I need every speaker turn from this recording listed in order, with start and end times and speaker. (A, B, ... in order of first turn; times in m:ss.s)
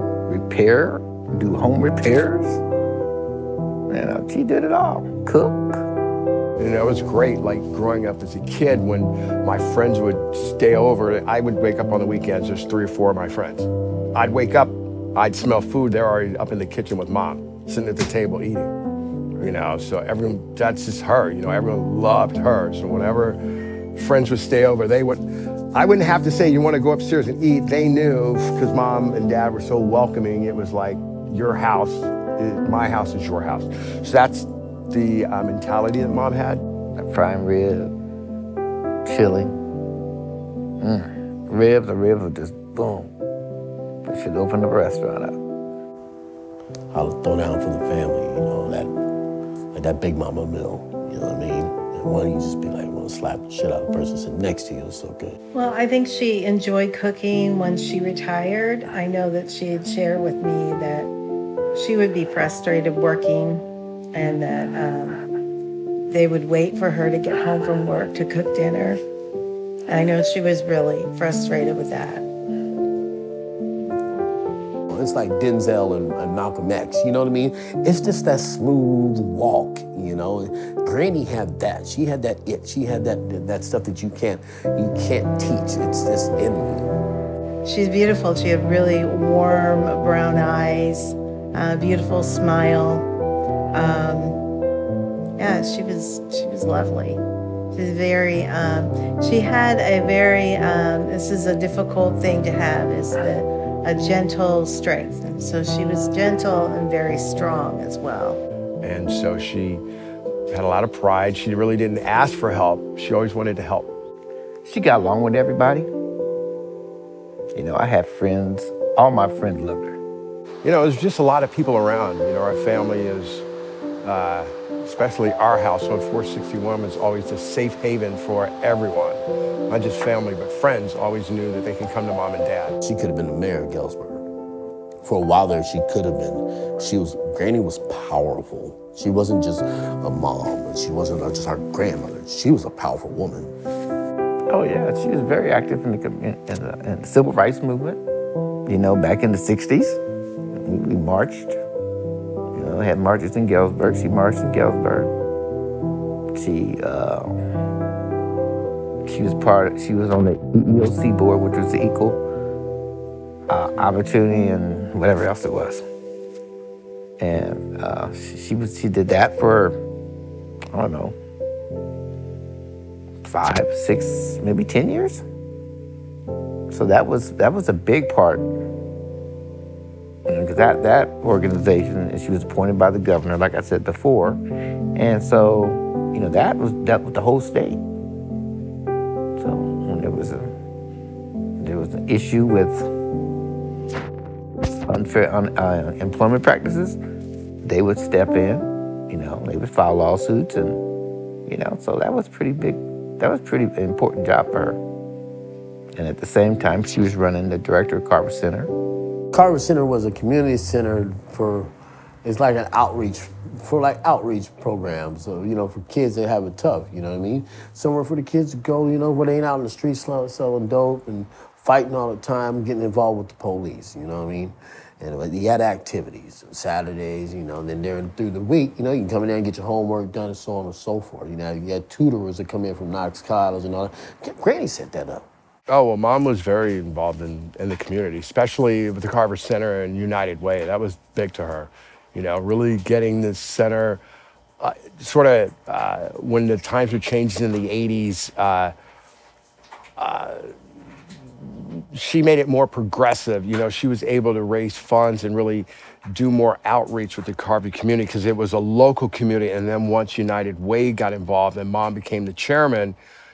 0:00.3-0:02.6 A
0:03.9-0:05.8 A
0:06.6-0:18.7 B
0:19.4-0:23.4 B
0:23.9-0:36.6 B
0:37.0-0:37.9 A
0:39.0-0:39.6 A
0:40.8-0:43.1 A
0:44.0-0:45.4 A
0:46.9-0:48.9 C
0:49.7-0:55.4 C
0:55.5-1:01.1 D
1:01.7-1:05.2 D
1:06.1-1:09.0 D
1:09.9-1:12.3 D
1:14.9-1:27.0 C
1:27.6-1:33.1 D
1:33.7-1:34.4 D
1:35.4-1:37.2 D
1:37.7-1:48.4 D
1:48.8-1:49.8 B
1:50.5-1:53.9 B
1:54.6-1:55.9 A
1:57.5-2:00.0 A
2:00.6-2:03.5 B
2:04.0-2:12.8 B
2:12.8-2:14.3 C
2:15.0-2:23.6 C
2:24.5-2:28.0 A
2:28.7-2:30.0 A
2:30.5-2:31.6 A
2:32.5-2:35.1 A
2:36.3-2:37.4 A
2:39.0-2:42.2 A
2:43.5-2:45.8 A
2:47.2-2:49.8 A
2:50.7-2:51.2 A
2:53.2-2:55.2 A
2:56.7-2:58.5 A
3:00.3-3:04.4 A
3:04.9-3:07.8 A
3:09.4-3:10.5 A
3:11.6-3:12.9 A
3:14.8-3:17.0 A
3:17.6-3:20.8 A
3:21.5-3:24.8 A
3:26.0-3:28.7 A
3:29.3-3:31.7 C
3:32.2-3:55.3 C
3:55.7-4:04.0 B
4:04.6-4:08.7 B
4:10.0-4:10.6 B
4:11.4-4:23.0 B